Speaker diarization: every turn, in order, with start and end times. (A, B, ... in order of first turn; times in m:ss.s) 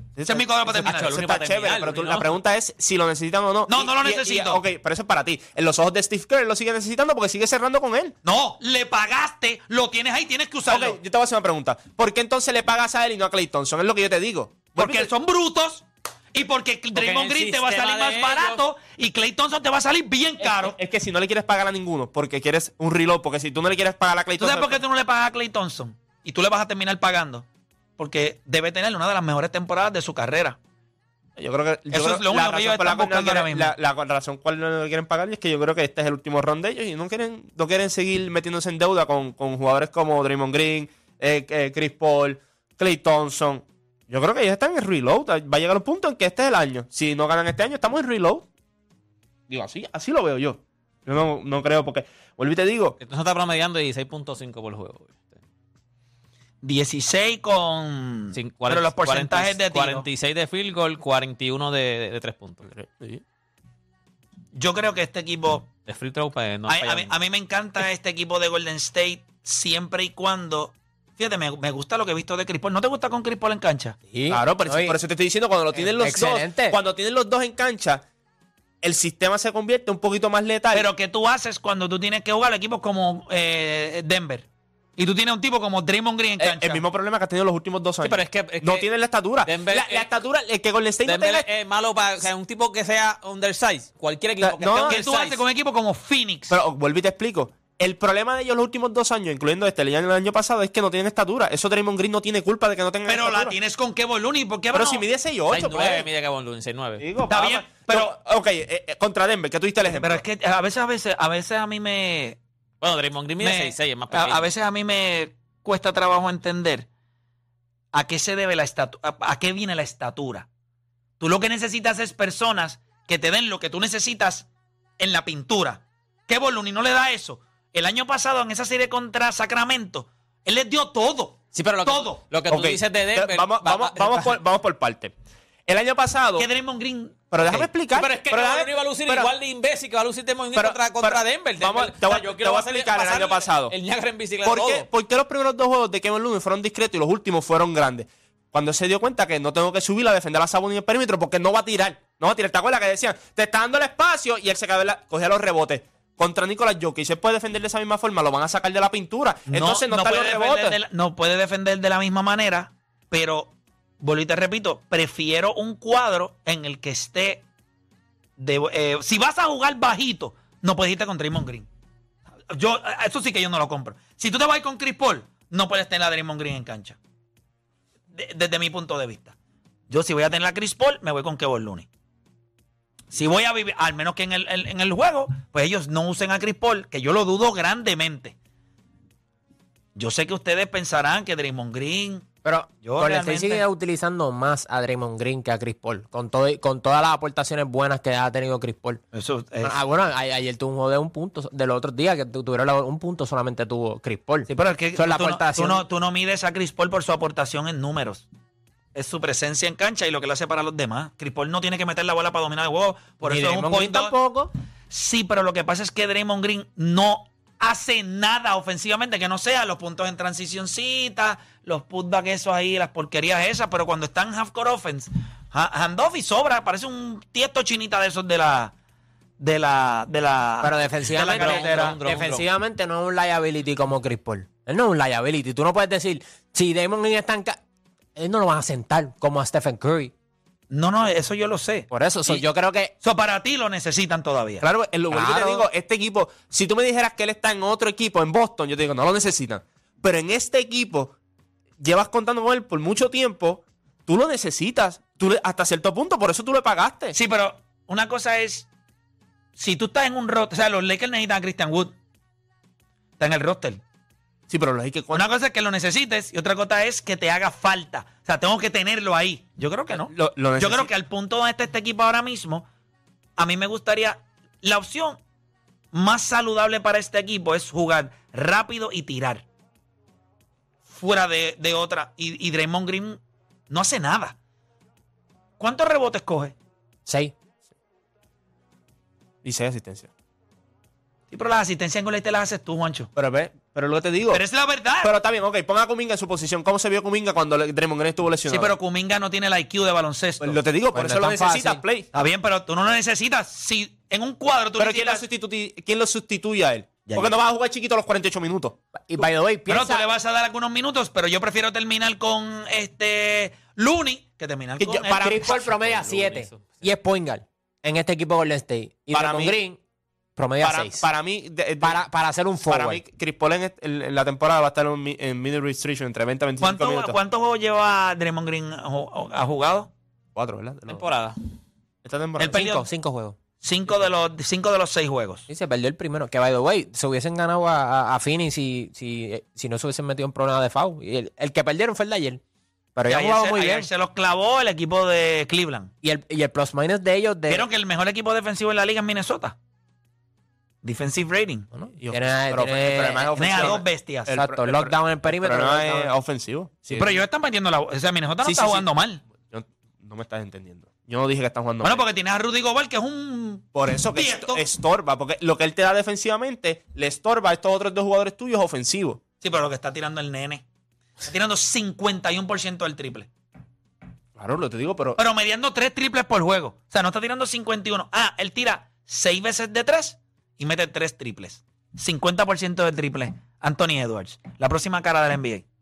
0:00.2-0:00.5 A
0:00.2-0:01.2 B
0:00.6-0:02.4 C
0:01.1-0:08.2 A
0:03.7-0:04.6 B
0:08.2-0:11.0 B
0:10.7-0:15.1 A
0:14.8-0:20.8 B
0:16.9-0:18.6 C
0:20.4-0:24.8 A
0:24.4-0:27.4 B
0:28.0-0:30.6 B
0:31.4-0:48.4 A
0:31.9-0:33.8 B
0:49.5-0:53.0 A
0:53.0-0:55.4 C
0:56.6-1:00.1 B
0:58.3-1:02.7 C
1:02.7-1:03.2 A
1:04.6-1:05.7 B
1:05.9-1:07.2 C
1:06.7-1:14.0 B
1:14.1-1:15.0 D
1:14.3-1:18.0 A
1:15.7-1:16.8 D
1:18.8-1:20.9 A
1:20.7-1:24.4 B
1:25.0-1:26.8 B
1:26.4-1:31.5 A
1:28.0-1:28.9 C
1:29.4-1:30.2 C
1:31.0-1:35.4 C
1:34.4-1:35.0 A
1:34.8-1:36.6 B
1:36.5-1:43.6 A
1:43.0-1:45.1 B
1:44.7-1:46.1 A
1:45.5-1:47.1 C
1:47.0-1:50.2 A
1:47.3-1:48.2 B
1:49.8-1:52.4 B
1:52.8-1:54.5 C
1:53.4-1:56.9 B
1:57.9-2:00.5 B
2:01.2-2:04.5 B
2:05.0-2:12.2 B
2:11.5-2:14.4 C
2:12.5-2:15.1 A
2:15.7-2:16.5 A
2:16.4-2:17.3 B
2:17.3-2:19.3 A
2:17.4-2:24.9 C
2:20.5-2:23.8 A
2:24.4-2:40.8 A
2:39.5-2:47.4 B
2:48.4-2:51.7 B
2:52.5-2:57.0 B
2:58.1-2:59.4 B
2:59.9-3:01.9 B
3:03.1-3:08.4 B
3:10.0-3:12.3 B
3:12.4-3:19.0 D
3:12.8-3:13.6 B
3:19.1-3:19.8 B
3:19.6-3:25.9 D
3:24.5-3:28.3 B
3:29.0-3:34.1 B
3:33.2-3:34.5 D
3:34.9-3:48.7 B
3:49.4-3:52.0 B
3:50.6-3:57.6 D
3:51.2-3:52.4 C
3:58.2-4:00.1 D
4:00.7-4:02.4 B
4:01.9-4:02.9 D
4:03.0-4:04.6 B
4:04.6-4:11.1 A
4:05.1-4:05.7 D
4:11.8-4:17.2 A
4:17.1-4:18.7 B
4:19.6-4:21.9 B
4:23.2-4:23.8 B
4:24.5-4:25.2 A
4:25.1-4:32.7 B
4:29.9-4:30.9 A
4:33.4-4:35.2 B
4:35.9-4:39.4 B
4:40.9-4:44.4 B
4:45.6-4:46.5 B
4:47.1-4:47.3 D
4:49.4-4:50.1 A
4:51.3-4:53.1 B
4:53.2-4:54.4 A
4:54.3-4:55.1 B
4:55.0-4:58.7 A
4:58.5-5:00.6 B
5:00.4-5:02.1 A
5:00.9-5:01.8 D
5:02.1-5:05.2 B
5:04.8-5:09.2 A
5:07.0-5:07.4 B
5:09.1-5:10.1 D
5:09.7-5:15.6 B
5:14.8-5:15.6 A
5:15.1-5:19.8 D
5:15.6-5:16.9 C
5:19.1-5:19.6 A
5:20.4-5:21.1 D
5:20.6-5:22.0 A
5:21.8-5:23.0 D
5:22.6-5:27.2 A
5:26.6-5:29.9 B
5:30.4-5:31.1 A
5:30.9-5:31.4 C
5:32.0-5:32.6 A
5:32.4-5:32.9 B
5:32.5-5:33.4 D
5:33.6-5:35.4 B
5:35.5-5:42.4 D
5:43.0-5:43.9 D
5:43.1-5:45.9 B
5:46.0-5:47.7 D
5:47.5-5:49.6 B
5:50.8-5:51.7 B
5:51.7-5:56.2 D
5:52.0-5:57.1 A
5:53.3-5:54.3 B
5:56.9-5:57.2 D
5:56.9-5:59.2 B
5:58.4-5:58.9 A
5:59.4-6:02.0 A
6:01.8-6:04.6 B
6:03.8-6:09.2 A
6:09.4-6:10.6 B
6:11.2-6:13.3 B
6:14.4-6:15.2 A
6:15.2-6:25.6 B